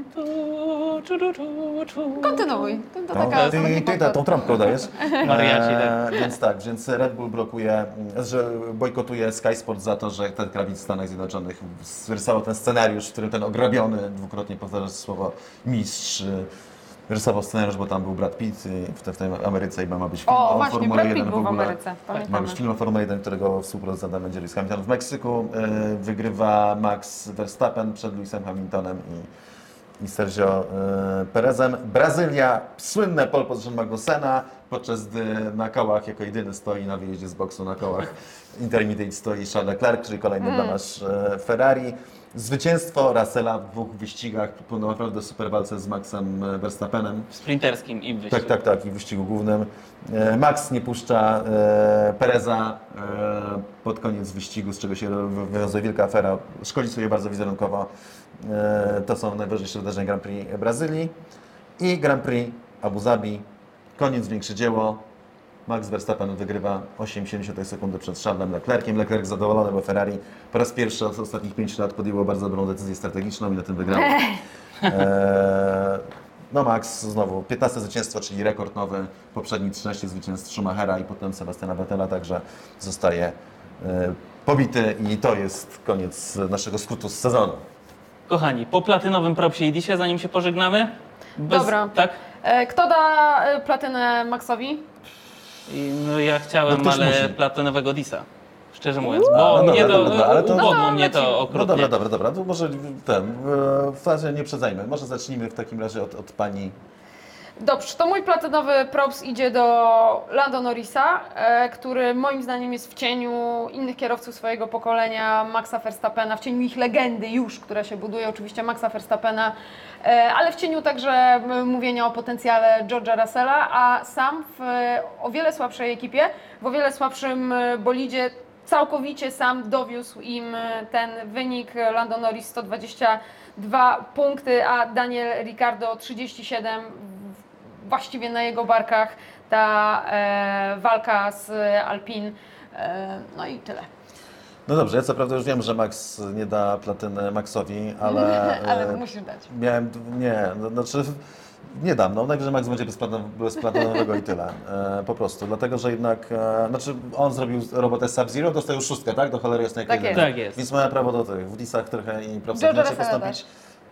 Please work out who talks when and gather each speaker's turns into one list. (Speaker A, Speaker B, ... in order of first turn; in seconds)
Speaker A: 0.1-2.5, 3.2-3.8, 5.0-6.0, 47.3-48.5, 88.3-92.2, 95.7-101.9, 160.1-160.6
Speaker B: 2.2-4.3, 20.3-22.6, 40.4-40.8, 91.5-94.8, 99.0-101.4, 107.6-143.9, 148.1-149.5, 159.9-160.2, 162.5-163.4
Speaker C: 3.1-16.5, 17.1-29.3, 30.0-47.3, 48.3-61.1, 61.8-65.0, 65.7-74.3, 74.8-87.6, 96.7-97.4, 99.3-100.9, 101.5-106.7, 144.7-163.5